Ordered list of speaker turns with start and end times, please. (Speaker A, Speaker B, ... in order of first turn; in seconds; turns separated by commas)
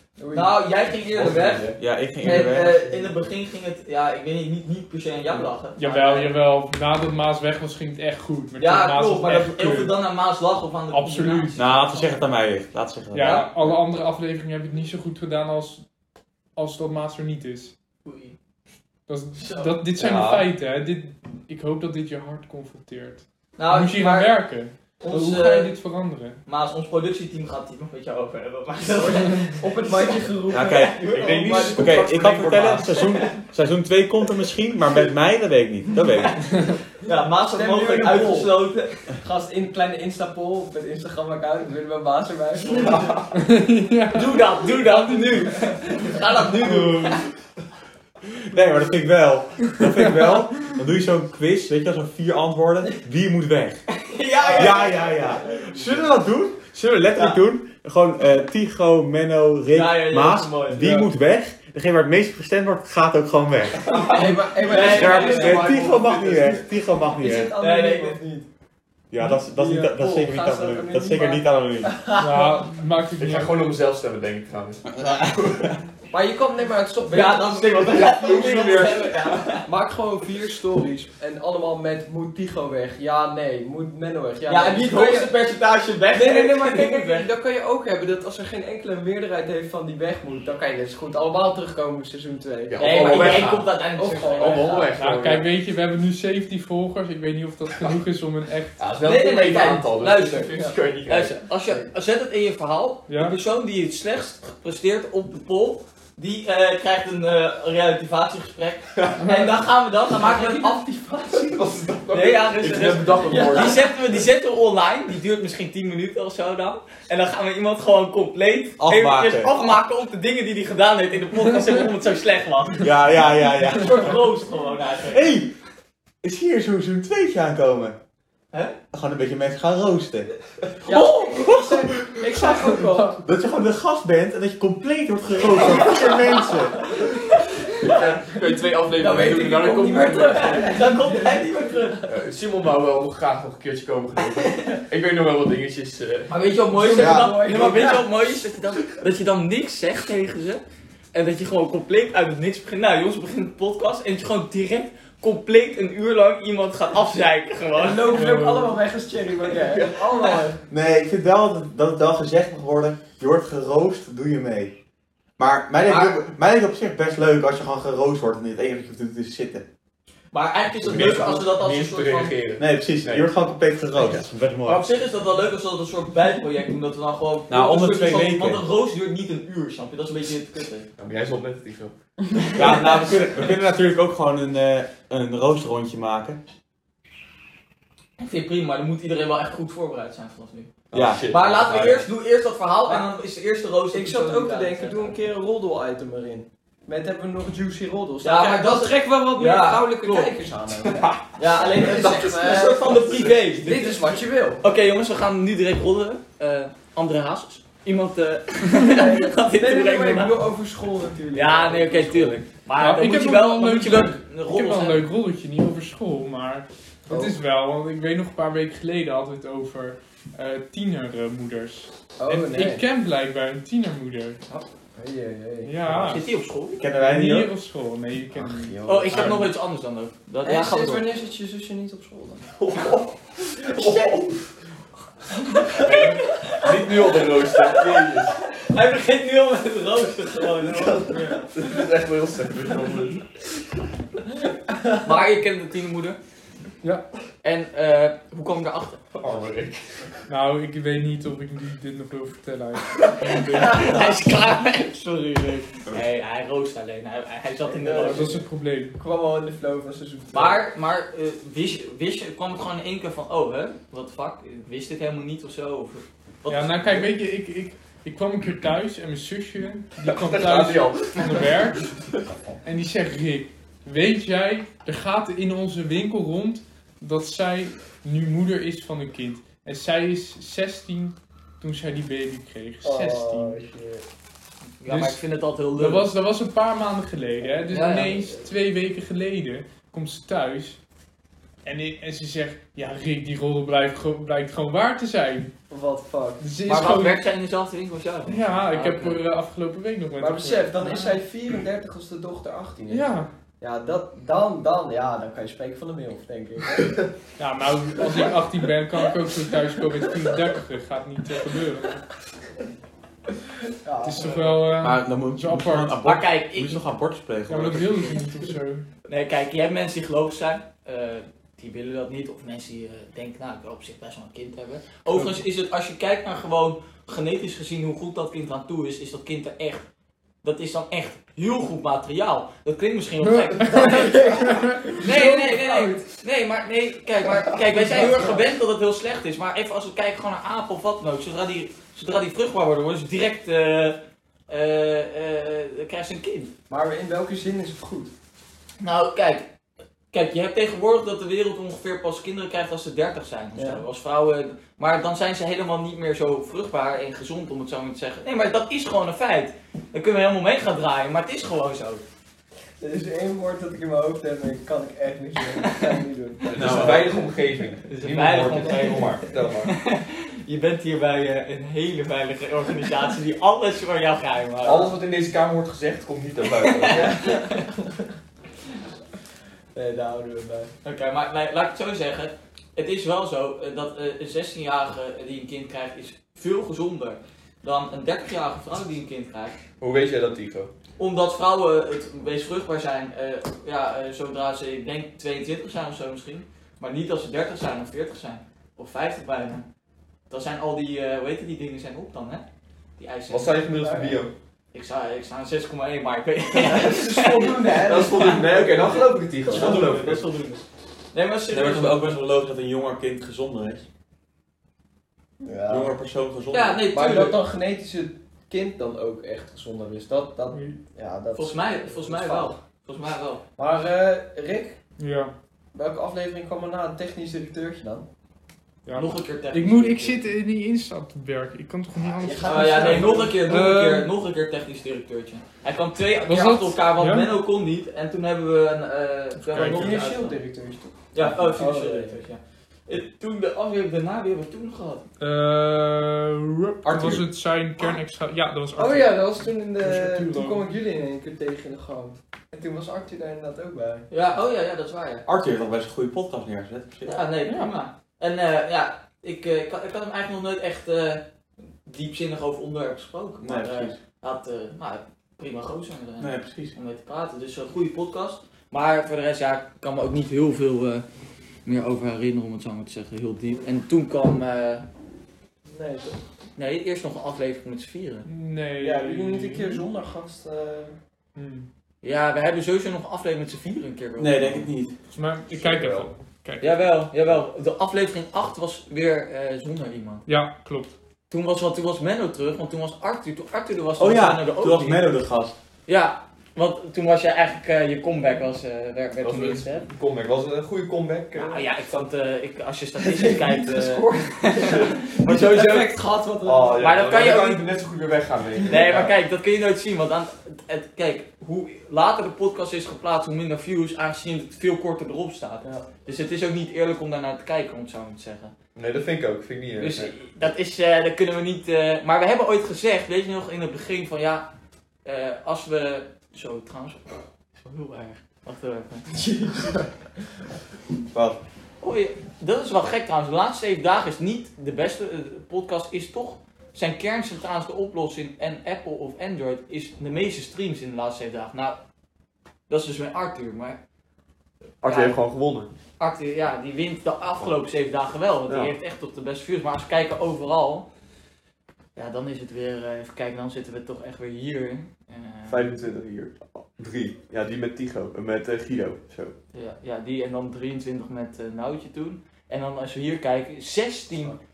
Speaker A: 0.2-0.6, Speaker B: 0.3-6.3, Speaker C: 1.1-1.8, Speaker D: 1.8-2.7, Speaker A: 2.2-3.1, Speaker E: 5.8-9.9, Speaker B: 8.6-12.3, Speaker E: 10.9-11.6, Speaker D: 11.6-13.7, Speaker E: 13.1-15.8, Speaker B: 13.2-13.5, Speaker E: 16.6-17.7, Speaker B: 18.1-18.4, Speaker E: 19.1-26.4, Speaker B: 19.4-19.8, Speaker C: 20.0-20.5, Speaker B: 23.6-24.3, Speaker B: 25.0-25.8, Speaker B: 26.5-31.9, Speaker A: 28.9-32.1, Speaker D: 30.5-36.5, Speaker C: 31.2-33.0, Speaker B: 32.9-33.3, Speaker B: 36.2-39.0, Speaker A: 37.5-38.6, Speaker A: 39.2-43.3, Speaker C: 42.7-43.3, Speaker E: 43.3-45.2, Speaker B: 44.1-47.2, Speaker E: 46.7-47.2, Speaker D: 48.3-53.8, Speaker B: 54.0-55.1, Speaker A: 54.4-55.7, Speaker D: 54.5-63.8, Speaker B: 59.7-61.0, Speaker B: 63.9-65.9, Speaker A: 63.9-66.6, Speaker C: 64.7-66.6, Speaker D: 64.8-67.5, Speaker A: 67.1-68.5, Speaker B: 67.6-68.2, Speaker D: 69.1-71.9, Speaker A: 69.2-72.7, Speaker E: 72.2-73.6, Speaker C: 73.2-75.7, Speaker D: 75.0-75.3, Speaker A: 76.1-79.0, Speaker B: 77.1-79.7, Speaker C: 77.8-79.6, Speaker A: 79.6-85.3, Speaker B: 84.5-87.3, Speaker A: 86.1-94.9, Speaker C: 92.7-93.8, Speaker B: 92.8-94.9, Speaker C: 94.3-95.5, Speaker E: 95.0-98.8, Speaker C: 98.8-101.4, Speaker B: 99.0-110.8, Speaker E: 103.1-103.4, Speaker C: 109.0-109.3, Speaker A: 110.1-111.7, Speaker C: 111.3-113.9, Speaker B: 112.1-125.3, Speaker A: 113.3-113.8, Speaker D: 118.8-119.8, Speaker D: 122.8-124.2, Speaker D: 125.1-125.5, Speaker D: 126.2-128.0, Speaker D: 128.9-130.3, Speaker B: 130.8-131.8, Speaker A: 130.8-133.2, Speaker E: 132.6-133.1, Speaker D: 133.2-136.8, Speaker B: 135.8-136.1, Speaker B: 136.9-138.2, Speaker C: 137.8-140.3, Speaker B: 138.9-142.0, Speaker A: 139.0-142.1, Speaker C: 142.1-146.3, Speaker B: 144.4-144.8, Speaker B: 146.3-150.6, Speaker A: 146.7-148.1, Speaker D: 146.9-147.4, Speaker B: 151.1-158.2, Speaker A: 157.7-160.6, Speaker E: 158.1-158.8, Speaker C: 159.5-160.4, Speaker D: 160.7-164.7, Speaker D: 165.4-169.7, Speaker B: 165.8-166.2, Speaker B: 170.3-172.4, Speaker C: 170.8-173.3, Speaker D: 172.6-174.8, Speaker C: 174.0-174.2, Speaker B: 174.7-180.9, Speaker D: 177.5-178.6, Speaker C: 181.0-181.9, Speaker B: 182.5-183.2, Speaker D: 182.6-186.4, Speaker B: 188.2-190.7, Speaker C: 190.9-192.1, Speaker D: 190.9-191.2, Speaker B: 191.3-195.2, Speaker A: 193.9-201.1, Speaker B: 198.2-200.3, Speaker C: 200.8-203.8, Speaker B: 201.4-204.0, Speaker A: 201.8-202.8, Speaker A: 203.6-204.6, Speaker B: 204.6-210.4, Speaker A: 208.8-212.4, Speaker B: 211.3-215.1, Speaker E: 212.8-224.4, Speaker A: 217.1-217.4, Speaker A: 222.2-222.8, Speaker A: 225.0-225.8, Speaker E: 225.7-226.2, Speaker B: 226.1-226.8, Speaker D: 226.8-227.5, Speaker E: 226.9-229.5, Speaker A: 228.3-229.5, Speaker B: 228.8-231.1, Speaker A: 230.4-232.5, Speaker C: 232.6-234.4, Speaker B: 233.6-234.2, Speaker C: 235.7-238.4, Speaker B: 235.7-241.5, Speaker C: 240.7-243.3, Speaker B: 245.0-246.2, Speaker B: 247.4-249.0, Speaker C: 249.2-250.2, Speaker E: 250.3-254.1, Speaker B: 253.2-258.4, Speaker A: 257.6-260.6, Speaker E: 258.0-259.0, Speaker B: 260.3-267.1, Speaker E: 266.5-271.9, Speaker C: 270.0-272.2, Speaker E: 272.6-283.6, Speaker A: 282.8-284.1, Speaker B: 284.8-286.1, Speaker E: 284.9-285.2, Speaker E: 285.8-290.8, Speaker A: 287.7-288.5, Speaker B: 287.7-288.0, Speaker E: 291.6-295.5, Speaker A: 295.7-296.4, Speaker E: 296.4-297.2, Speaker B: 296.7-299.2, Speaker E: 298.3-301.2, Speaker A: 300.2-307.1, Speaker E: 302.9-303.3, Speaker E: 307.4-312.1, Speaker A: 313.8-314.7, Speaker E: 314.0-316.0, Speaker D: 314.8-318.2, Speaker B: 316.0-316.9, Speaker E: 317.5-318.9, Speaker B: 319.1-329.9, Speaker B: 330.4-346.5, Speaker E: 333.3-335.3, Speaker A: 333.7-336.1, Speaker A: 337.2-338.5, Speaker A: 346.7-348.1, Speaker B: 348.8-349.5, Speaker B: 350.1-362.0, Speaker A: 353.6-353.8, Speaker A: 362.8-367.2, Speaker C: 366.5-369.7, Speaker D: 366.6-367.1, Speaker B: 367.9-375.0, Speaker A: 368.7-369.0, Speaker C: 374.6-377.2, Speaker B: 376.6-377.6, Speaker A: 376.9-377.9, Speaker A: 379.7-380.7, Speaker B: 380.8-389.6, Speaker C: 389.8-390.7, Speaker B: 391.0-399.7, Speaker B: 400.3-402.4, Speaker B: 403.0-403.6, Speaker C: 403.3-404.3, Speaker A: 403.8-404.2, Speaker B: 404.7-408.4, Speaker A: 406.5-408.9, Speaker C: 407.8-410.3, Speaker B: 409.4-412.2, Speaker A: 409.5-409.8, Speaker D: 411.5-413.9, Speaker A: 415.4-416.0, Speaker D: 415.7-416.8, Speaker B: 416.5-417.4, Speaker A: 416.9-422.6, Speaker E: 420.5-420.8, Speaker B: 421.4-423.4, Speaker A: 423.6-424.8, Speaker E: 425.0-425.3, Speaker A: 425.7-428.1, Speaker E: 428.9-434.1, Speaker B: 428.9-430.2, Speaker A: 432.0-433.5, Speaker B: 432.4-440.4, Speaker E: 436.3-437.3, Speaker E: 439.4-440.0, Speaker A: 439.6-442.2, Speaker B: 441.1-445.1, Speaker E: 445.2-450.6, Speaker D: 446.9-447.2, Speaker A: 448.8-454.1, Speaker B: 454.1-455.3, Speaker D: 455.3-457.2, Speaker B: 457.0-461.3, Speaker B: 461.9-471.1, Speaker D: 463.4-464.0, Speaker D: 466.2-466.8, Speaker B: 471.7-474.9, Speaker A: 475.7-476.2, Speaker B: 476.6-478.3, Speaker E: 478.2-479.9, Speaker A: 478.8-480.9, Speaker E: 481.4-481.7, Speaker B: 482.0-484.7, Speaker D: 484.2-484.9, Speaker E: 485.1-486.7, Speaker C: 485.5-486.1, Speaker B: 486.6-490.2, Speaker E: 490.3-490.9, Speaker B: 491.3-495.1, Speaker D: 494.0-495.6, Speaker B: 495.9-499.9, Speaker C: 499.2-502.0, Speaker B: 501.3-505.9, Speaker A: 503.0-506.9, Speaker C: 504.6-505.7, Speaker C: 506.4-509.1, Speaker B: 506.8-507.7, Speaker A: 508.6-509.0, Speaker B: 508.7-518.5, Speaker C: 518.8-520.1, Speaker B: 519.8-524.5, Speaker B: 525.0-529.1, Speaker A: 529.1-529.9, Speaker D: 531.1-531.4, Speaker B: 531.8-541.8, Speaker B: 542.7-543.8, Speaker C: 544.8-545.7, Speaker B: 544.9-545.2, Speaker B: 546.0-550.9, Speaker C: 548.5-548.7, Speaker B: 552.0-555.7, Speaker C: 555.5-559.3, Speaker B: 559.5-564.4